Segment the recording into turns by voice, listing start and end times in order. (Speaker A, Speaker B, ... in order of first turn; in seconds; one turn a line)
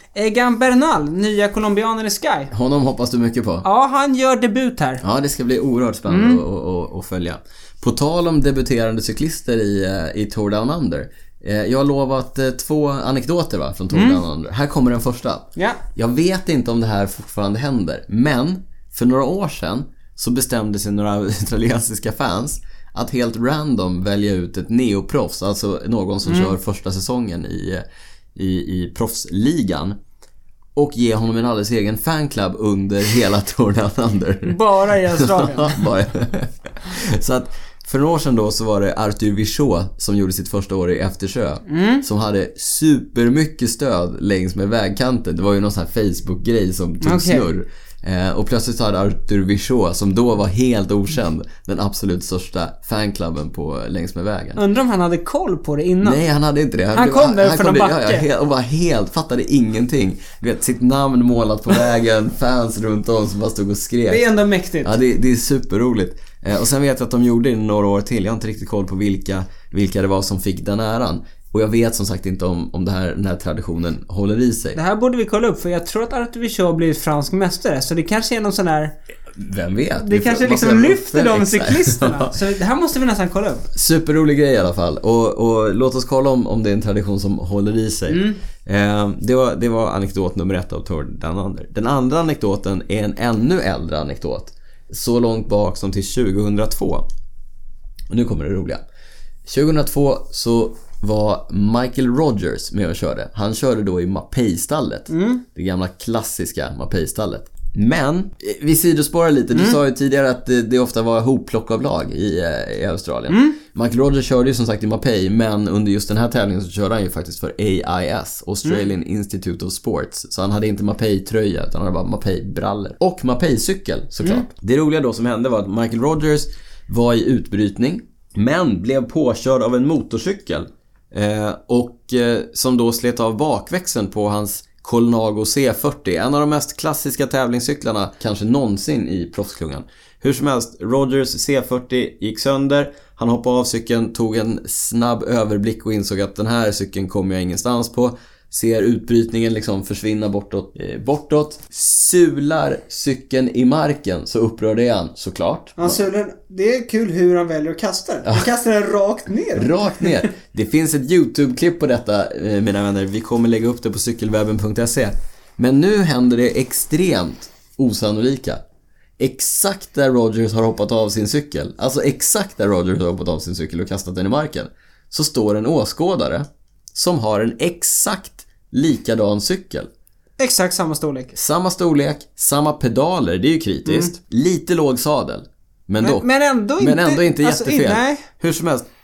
Speaker A: 0.1-2.5
Speaker B: 2.5-3.6
Speaker A: 3.6-5.0
Speaker B: 5.0-27.8
Speaker A: 6.1-6.4
Speaker A: 13.9-14.2
Speaker A: 26.2-26.6
Speaker B: 28.4-29.9
Speaker B: 30.8-54.6
Speaker A: 34.4-35.9
Speaker A: 41.7-42.0
Speaker A: 47.0-47.5
Speaker A: 54.6-56.2
Speaker B: 56.0-64.2
Speaker A: 56.9-58.2
Speaker A: 64.1-65.0
Speaker B: 64.8-74.8
Speaker A: 74.7-79.0
Speaker B: 79.3-82.4
Speaker A: 80.0-83.7
Speaker B: 83.7-97.0
Speaker A: 88.1-88.4
Speaker B: 98.1-98.8
Speaker B: 99.5-156.0
Speaker A: 105.1-105.4
Speaker A: 109.5-109.8
Speaker A: 113.3-113.6
Speaker A: 155.8-160.3
Speaker B: 159.6-168.6
Speaker B: 169.2-179.9
Speaker A: 180.4-181.3
Speaker B: 181.3-186.2
Speaker A: 183.8-184.1
Speaker A: 186.0-188.3
Speaker B: 186.8-188.8